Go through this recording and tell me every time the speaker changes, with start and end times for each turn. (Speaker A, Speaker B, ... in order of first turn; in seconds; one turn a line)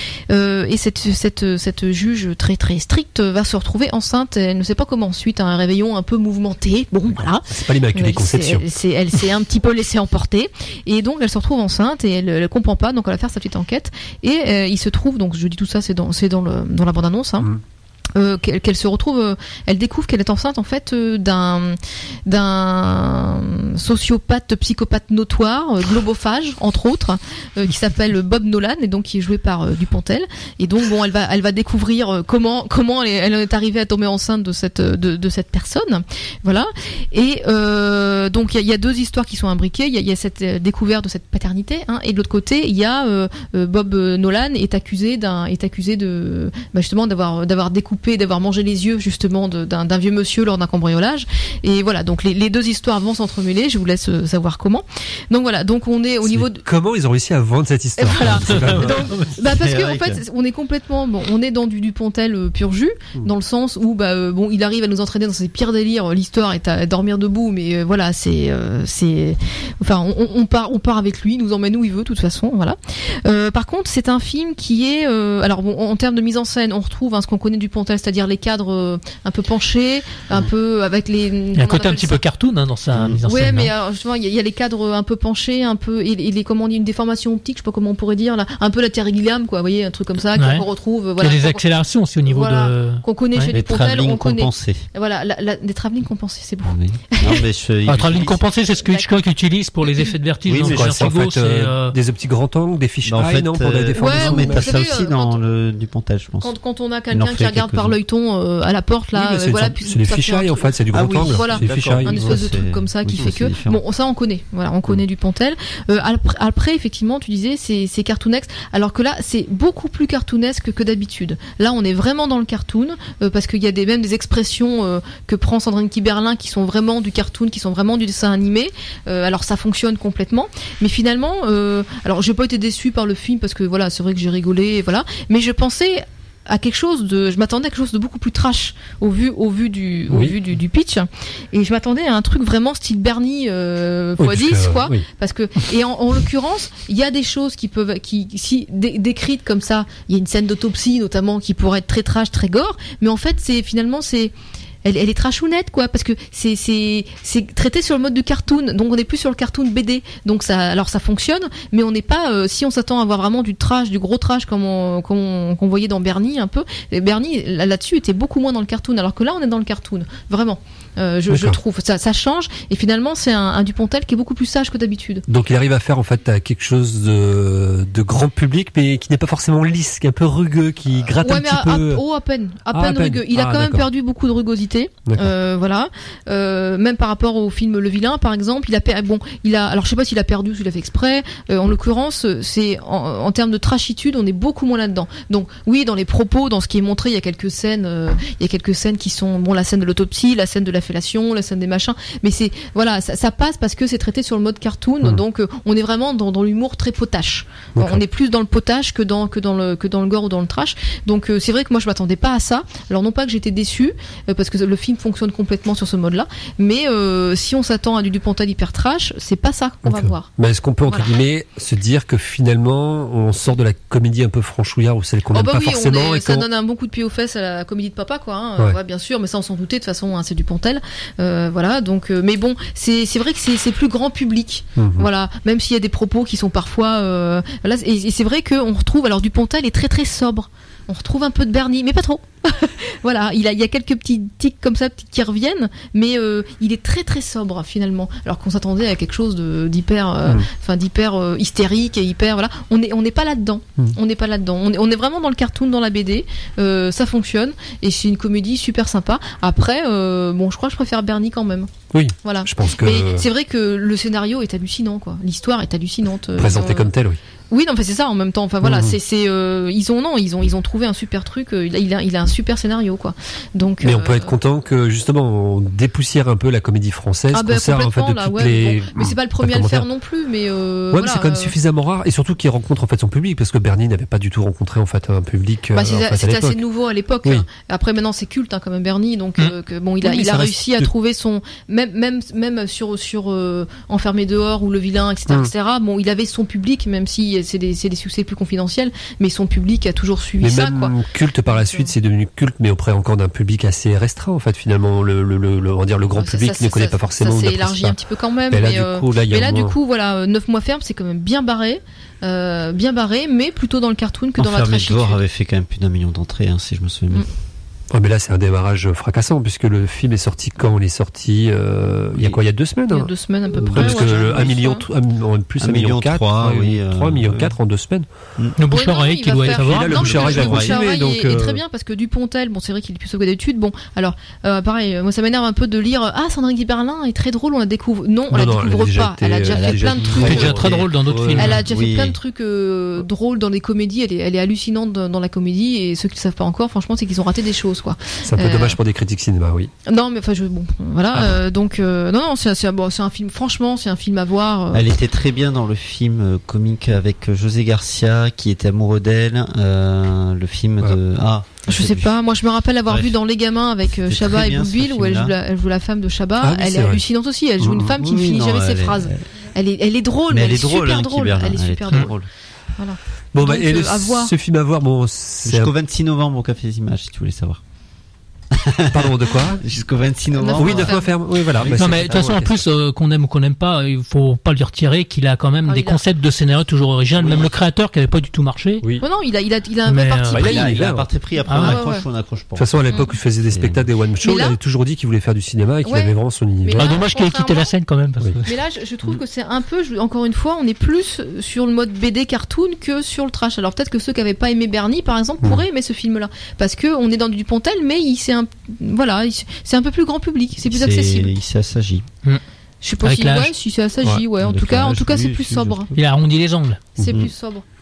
Speaker A: 0.3-17.5
Speaker B: 7.5-8.7
Speaker A: 18.1-56.6
Speaker B: 56.2-59.0
Speaker A: 58.0-82.2
Speaker C: 58.5-58.9
Speaker D: 58.8-60.2
Speaker C: 81.5-83.7
Speaker A: 83.2-91.6
Speaker C: 90.3-90.7
Speaker C: 91.2-93.5
Speaker A: 92.2-97.5
Speaker D: 93.5-94.8
Speaker D: 96.7-98.5
Speaker C: 97.9-102.0
Speaker A: 98.8-99.1
Speaker D: 100.5-101.1
Speaker B: 100.5-104.8
Speaker D: 103.0-106.5
Speaker A: 103.9-105.5
Speaker A: 106.4-154.3
Speaker D: 107.1-108.0
Speaker B: 109.1-112.5
Speaker D: 110.9-113.8
Speaker B: 144.2-145.0
Speaker A: 154.8-175.2
Speaker B: 171.3-171.6
Speaker B: 175.3-182.0
Speaker A: 181.2-220.3
Speaker B: 182.7-183.9
Speaker B: 207.8-208.0
Speaker B: 219.8-226.4
Speaker A: 220.8-221.1
Speaker A: 225.3-261.7
Speaker B: 234.8-235.1
Speaker B: 261.9-263.2
Speaker A: 262.2-266.9
Speaker B: 266.4-267.2
Speaker A: 267.5-274.3
Speaker B: 268.6-269.0
Speaker B: 273.8-279.9
Speaker A: 277.3-281.6
Speaker B: 280.9-286.6
Speaker A: 285.7-301.9
Speaker B: 290.0-290.9
Speaker B: 300.4-308.0
Speaker A: 306.2-315.2
Speaker B: 308.5-309.8
Speaker D: 314.4-317.3
Speaker B: 317.9-328.1
Speaker A: 322.9-324.9
Speaker D: 323.6-324.5
Speaker D: 325.6-327.6
Speaker C: 328.6-330.6
Speaker A: 328.7-340.8
Speaker B: 329.4-331.6
Speaker D: 329.9-330.8
Speaker B: 338.3-340.8
Speaker D: 339.5-342.2
Speaker C: 340.2-341.6
Speaker A: 341.3-348.8
Speaker B: 348.2-349.7
Speaker A: 349.9-354.9
Speaker D: 354.7-362.1
Speaker A: 361.7-372.3
Speaker D: 362.9-363.2
Speaker D: 363.9-365.4
Speaker B: 366.4-367.0
Speaker B: 367.6-367.9
Speaker D: 367.8-369.2
Speaker D: 370.3-372.2
Speaker A: 372.8-374.3
Speaker B: 373.3-375.7
Speaker D: 375.5-377.6
Speaker D: 378.5-381.0
Speaker B: 378.9-379.6
Speaker A: 380.4-381.1
Speaker B: 380.6-382.4
Speaker D: 381.6-382.6
Speaker C: 381.7-388.8
Speaker A: 385.7-386.0
Speaker D: 387.2-387.5
Speaker A: 389.0-390.5
Speaker C: 389.9-390.4
Speaker B: 390.3-391.1
Speaker D: 390.4-392.7
Speaker C: 391.5-391.8
Speaker A: 391.5-392.1
Speaker B: 392.6-397.0
Speaker D: 393.5-393.9
Speaker A: 394.2-394.6
Speaker A: 395.8-397.7
Speaker C: 396.8-398.6
Speaker A: 398.4-411.4
Speaker D: 410.6-412.1
Speaker A: 412.8-415.9
Speaker C: 413.0-413.5
Speaker D: 414.4-416.0
Speaker C: 415.9-416.9
Speaker A: 416.9-417.6
Speaker D: 417.1-417.3